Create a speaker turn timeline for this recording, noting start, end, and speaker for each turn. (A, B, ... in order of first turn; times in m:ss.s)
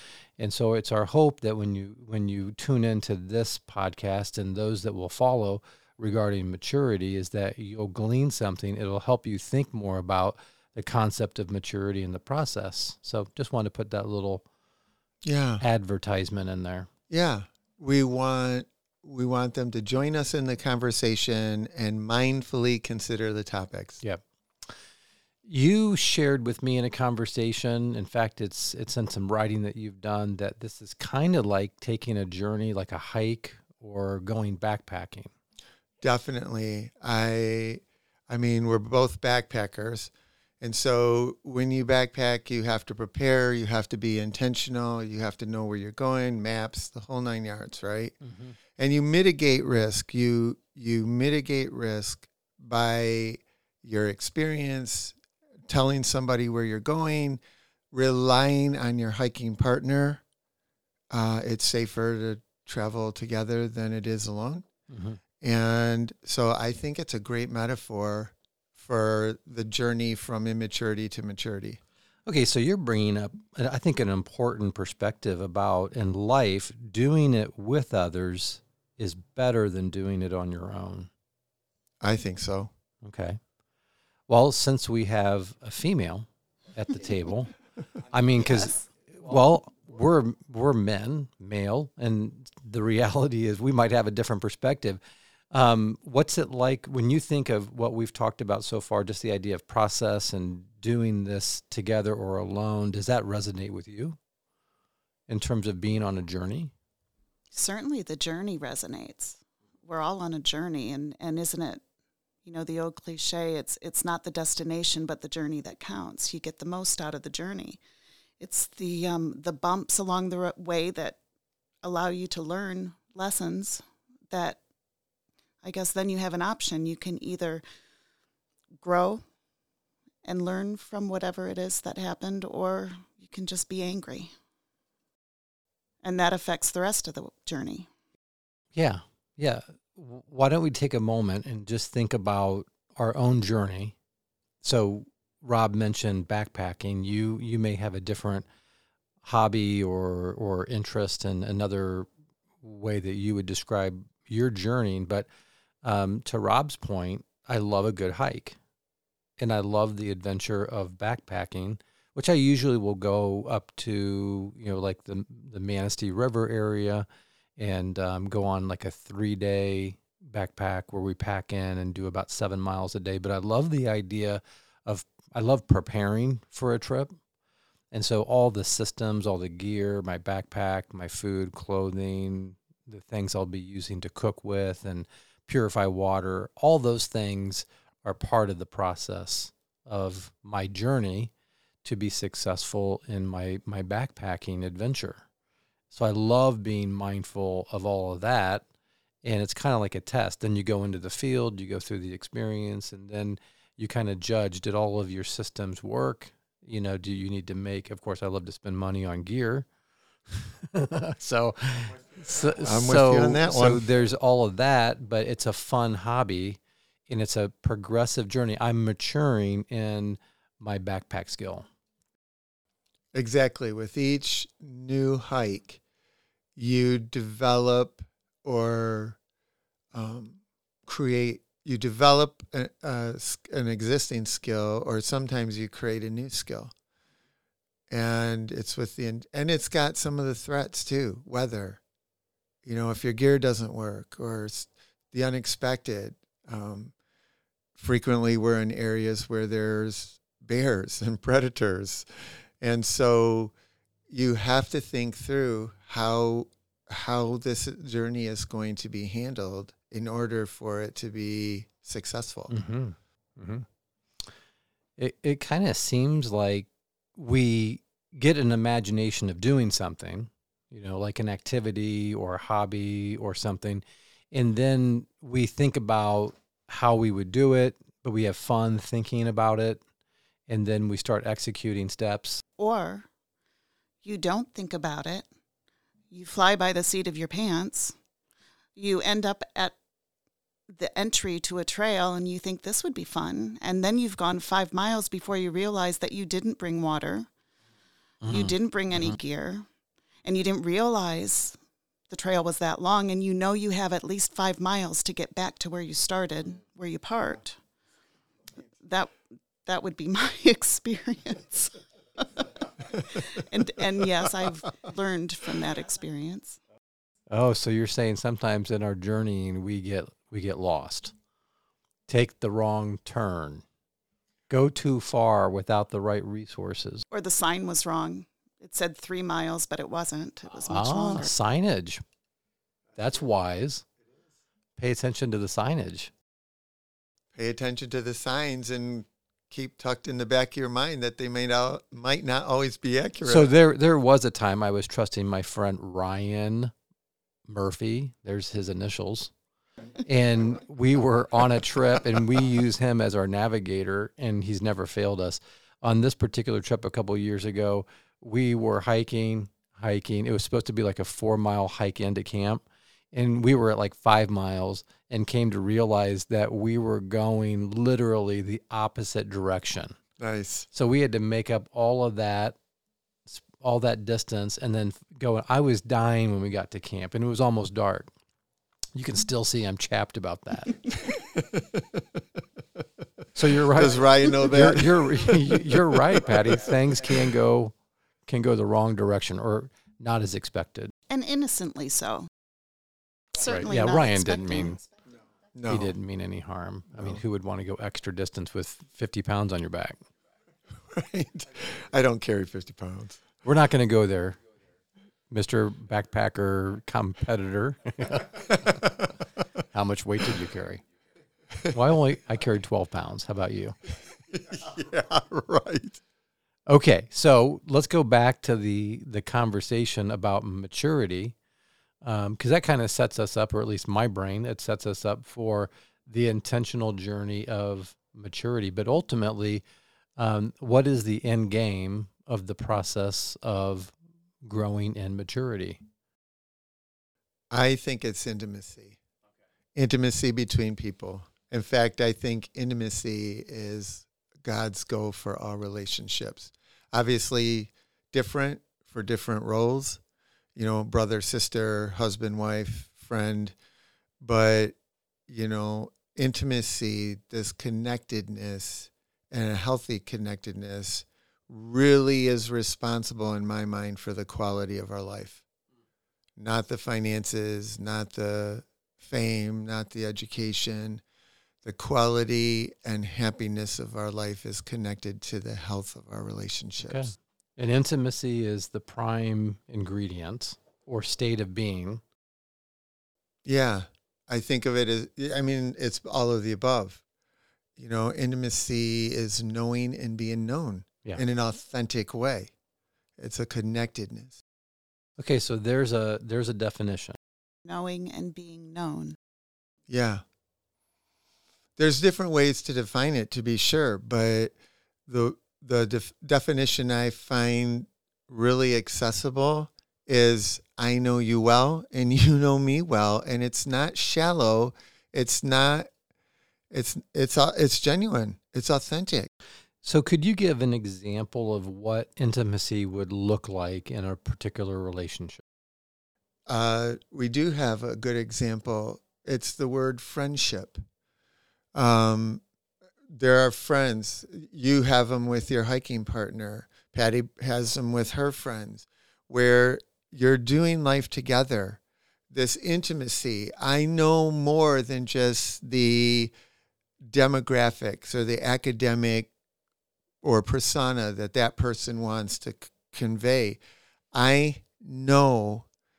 0:00.4-0:14.4 A
0:15.2-0:15.6 B
0:15.6-0:16.9 A
0:17.1-0:24.0 B
0:25.4-0:35.3 A
0:36.0-0:48.2 B
0:48.2-0:48.6 A
0:48.8-0:55.2 B
0:55.7-0:57.4 B
0:57.9-1:00.2 B
1:01.1-1:04.7 B
1:04.9-1:05.2 A
1:05.4-1:11.8 B
1:12.3-1:21.1 A
1:22.0-1:22.7 B
1:23.0-1:23.4 A
1:24.3-1:27.5 A
1:28.1-1:35.0 A
1:35.5-1:44.2 A
1:45.3-1:46.7 A
1:47.5-1:51.8 C
1:52.4-1:57.8 C
1:58.4-2:01.2 C
2:01.8-2:04.6 C
2:05.6-2:07.6 C
2:08.8-2:09.2 C
2:10.2-2:14.3 C
2:16.0-2:17.9 C
2:18.8-2:24.0 A
2:24.6-2:28.5 A
2:29.2-2:32.1 A
2:32.6-2:35.3 A
2:35.8-2:38.6 A
2:39.4-2:47.1 A
2:47.6-2:57.2 A
2:57.9-3:11.3 A
3:11.8-3:15.2 A
3:15.9-3:18.6 A
3:19.2-3:29.7 A
3:30.3-3:41.7 A
3:32.6-3:33.9 B
3:43.1-3:45.8 B
3:46.6-3:49.2 B
3:49.9-3:56.7 B
3:57.9-4:01.8 B
4:02.6-4:06.9 B
4:07.8-4:12.1 B
4:12.6-4:13.5 B
4:14.1-4:22.5 B
4:22.5-4:23.7 A
4:25.0-4:39.8 A
4:40.5-4:42.4 A
4:42.6-4:43.1 C
4:44.0-4:45.3 C
4:46.1-4:48.0 C
4:48.8-4:49.8 C
4:50.7-4:57.3 C
4:58.2-4:59.2 A
4:58.3-4:59.7 C
5:00.2-5:01.6 C
5:02.1-5:07.6 C
5:08.8-5:09.1 C
5:09.7-5:16.6 C
5:17.3-5:21.1 A
5:22.1-5:23.6 A
5:24.5-5:27.0 A
5:27.1-5:31.3 C
5:30.6-5:32.0 A
5:33.0-5:33.8 A
5:34.8-5:36.1 A
5:37.3-5:43.5 B
5:43.2-5:46.7 A
5:47.5-5:49.3 A
5:50.0-6:10.0 A
6:10.2-6:10.7 B
6:10.7-6:12.6 A
6:13.3-6:18.1 A
6:19.0-6:21.0 A
6:21.3-6:22.0 B
6:23.4-6:27.8 A
6:23.7-6:26.0 B
6:28.3-6:30.9 A
6:31.1-6:32.3 C
6:33.4-6:34.9 C
6:33.4-6:34.8 A
6:35.5-6:35.9 B
6:35.7-6:40.0 A
6:36.9-6:37.2 B
6:40.8-6:43.2 B
6:43.4-6:44.4 A
6:45.3-6:48.9 A
6:48.8-6:49.1 B
6:49.7-6:50.8 A
6:51.7-6:53.8 A
6:54.3-6:56.0 B
6:56.7-7:01.4 A
7:02.0-7:09.6 A
7:10.2-7:15.8 A
7:17.5-7:19.0 B
7:19.8-7:30.0 B
7:30.6-7:33.6 B
7:34.2-7:34.8 B
7:35.3-7:45.4 B
7:46.4-7:51.0 B
7:51.6-7:57.1 B
7:56.8-8:02.0 A
8:03.4-8:07.0 B
8:07.8-8:12.5 B
8:13.2-8:14.4 B
8:15.2-8:17.2 A
8:17.7-8:19.2 C
8:19.9-8:20.2 B
8:21.8-8:24.6 B
8:25.1-8:35.9 B
8:36.7-8:39.3 B
8:39.8-8:45.4 A
8:46.5-8:50.8 B
8:51.8-8:52.4 B
8:53.1-9:01.8 B
9:02.3-9:06.3 B
9:07.0-9:09.3 B
9:10.2-9:13.6 B
9:14.1-9:15.7 B